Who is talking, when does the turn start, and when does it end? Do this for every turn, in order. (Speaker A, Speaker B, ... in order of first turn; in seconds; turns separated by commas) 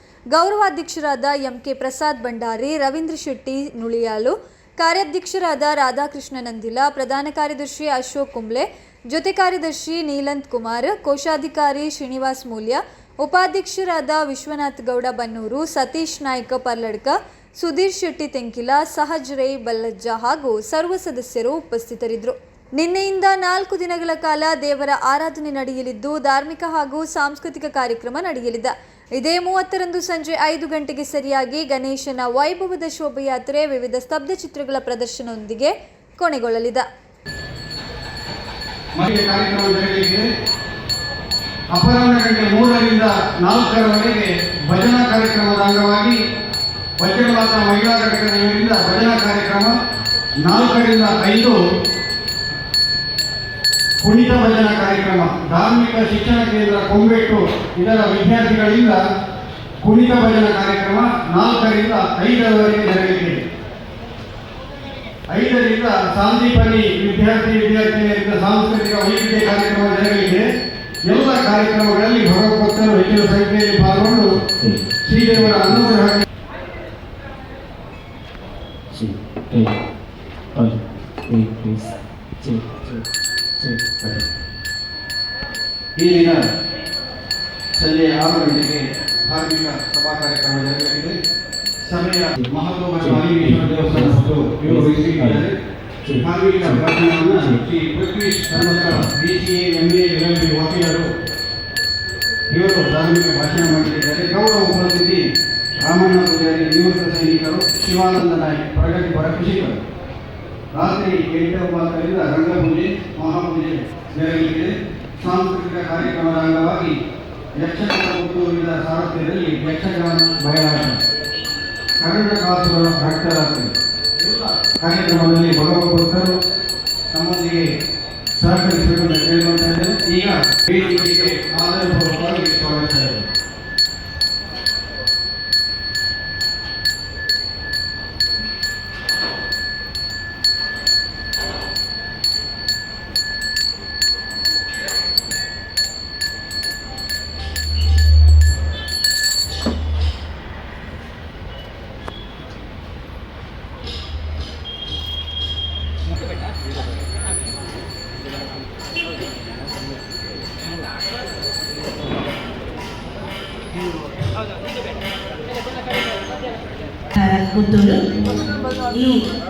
Speaker A: 0.3-36.9, Speaker B: 38.9-40.2, Speaker B: 41.7-46.2, Speaker B: 47.0-49.8, Speaker B: 50.4-51.6, Speaker B: 54.0-59.0, Speaker B: 59.8-63.4, Speaker B: 65.3-70.5, Speaker B: 71.0-74.3, Speaker C: 74.6-76.0, Speaker B: 75.0-76.2, Speaker C: 78.9-79.8, Speaker C: 80.5-83.0, Speaker C: 83.6-84.2, Speaker B: 86.0-86.4, Speaker B: 87.8-91.1, Speaker B: 91.8-95.5, Speaker C: 92.3-95.4, Speaker C: 96.0-97.6, Speaker B: 96.2-101.1, Speaker C: 98.8-99.1, Speaker B: 102.5-105.2, Speaker B: 105.8-109.8, Speaker B: 110.7-116.9, Speaker B: 117.6-121.0, Speaker B: 122.0-126.4, Speaker B: 127.1-127.7, Speaker B: 128.4-133.2, Speaker D: 167.1-169.2